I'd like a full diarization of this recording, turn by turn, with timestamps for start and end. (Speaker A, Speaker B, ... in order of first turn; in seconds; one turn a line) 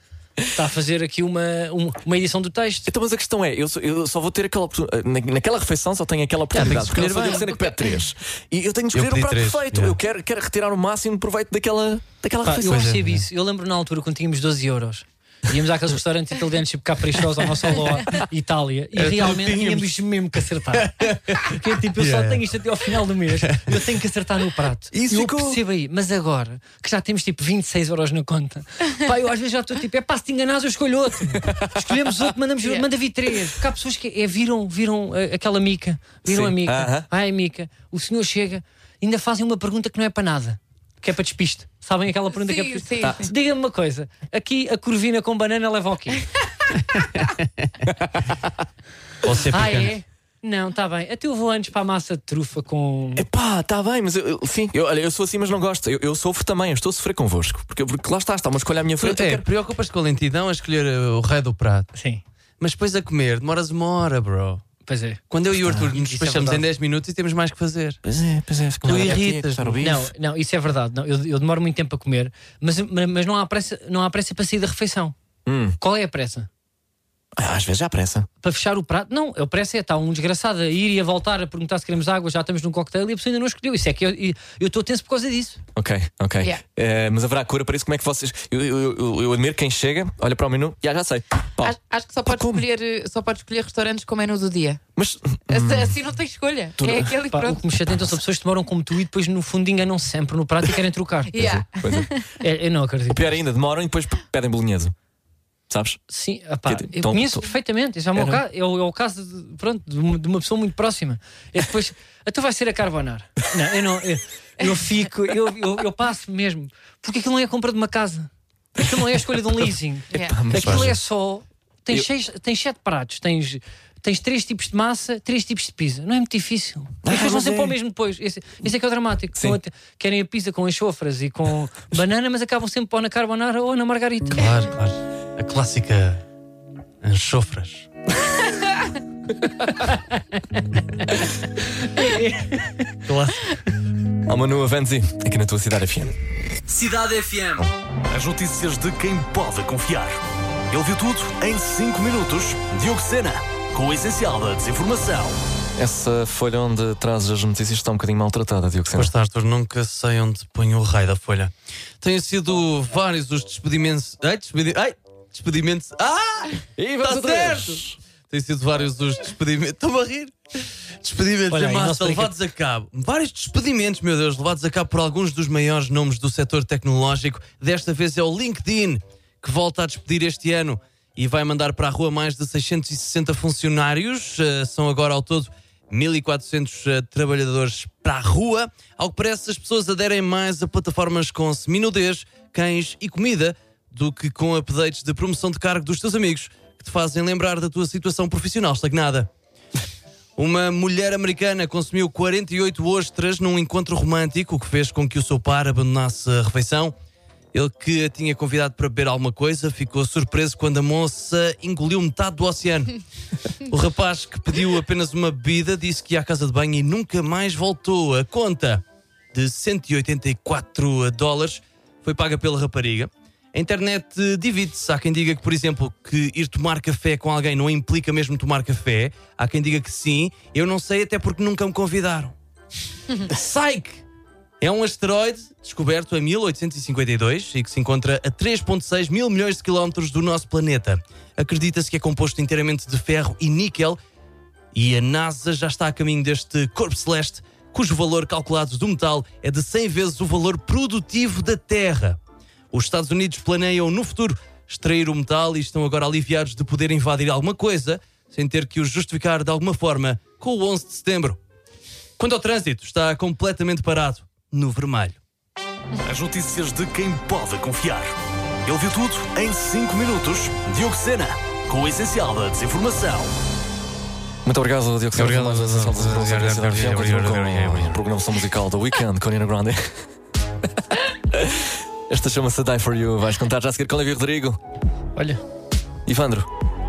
Speaker A: 0.5-2.9
Speaker B: 2.9-12.9
Speaker C: 6.5-7.5
Speaker C: 8.9-10.0
Speaker A: 12.4-46.2
Speaker C: 12.6-13.2
Speaker C: 18.9-19.9
Speaker C: 20.7-22.4
Speaker B: 24.9-25.6
Speaker B: 31.3-31.9
Speaker D: 32.6-32.9
Speaker B: 36.2-37.1
Speaker D: 42.3-43.3
Speaker B: 43.0-43.2
Speaker C: 49.2-49.9
Speaker A: 49.5-53.2
Speaker B: 53.1-59.5
Speaker C: 59.0-61.9
Speaker A: 61.9-62.2
Speaker C: 62.6-64.6
Speaker A: 64.8-66.6
Speaker C: 65.3-68.0
Speaker B: 68.0-70.1
Speaker C: 68.8-69.8
Speaker A: 68.9-69.2
Speaker A: 69.8-75.1
Speaker B: 75.5-75.8
Speaker A: 75.8-76.5
Speaker B: 77.3-78.3
Speaker A: 78.4-85.6
Speaker B: 85.7-92.6
Speaker D: 91.6-94.8
Speaker B: 95.0-96.0
Speaker D: 95.5-97.6
Speaker B: 96.8-97.1
Speaker A: 97.3-101.4
Speaker D: 101.3-102.3
Speaker B: 101.3-102.1
Speaker A: 102.4-103.4
Speaker B: 103.1-104.9
Speaker B: 105.7-106.0
Speaker A: 106.1-134.5
Speaker B: 106.7-107.5
Speaker B: 108.1-108.4
Speaker D: 120.1-120.5
Speaker B: 120.1-121.0
Speaker B: 127.0-127.8
Speaker C: 134.3-136.2
Speaker C: 137.0-137.9
Speaker A: 141.8-143.6
Speaker B: 144.2-146.1
Speaker E: 146.7-150.2
Speaker E: 150.7-155.4
Speaker B: 155.8-159.1
Speaker C: 158.9-170.3
Speaker B: 166.8-168.0
Speaker C: 171.0-199.3
Speaker A: 171.5-172.3
Speaker C: 200.4-206.9
Speaker C: 207.5-213.0
Speaker C: 213.7-218.8
Speaker C: 219.3-232.3
Speaker C: 233.2-234.0
Speaker C: 234.6-244.0
Speaker C: 244.7-252.2
Speaker C: 252.7-261.4
Speaker C: 262.2-265.2
Speaker E: 266.0-273.3
Speaker B: 274.4-280.0
Speaker C: 275.1-278.0
Speaker B: 281.3-284.6
Speaker A: 285.1-285.4
Speaker B: 286.1-286.5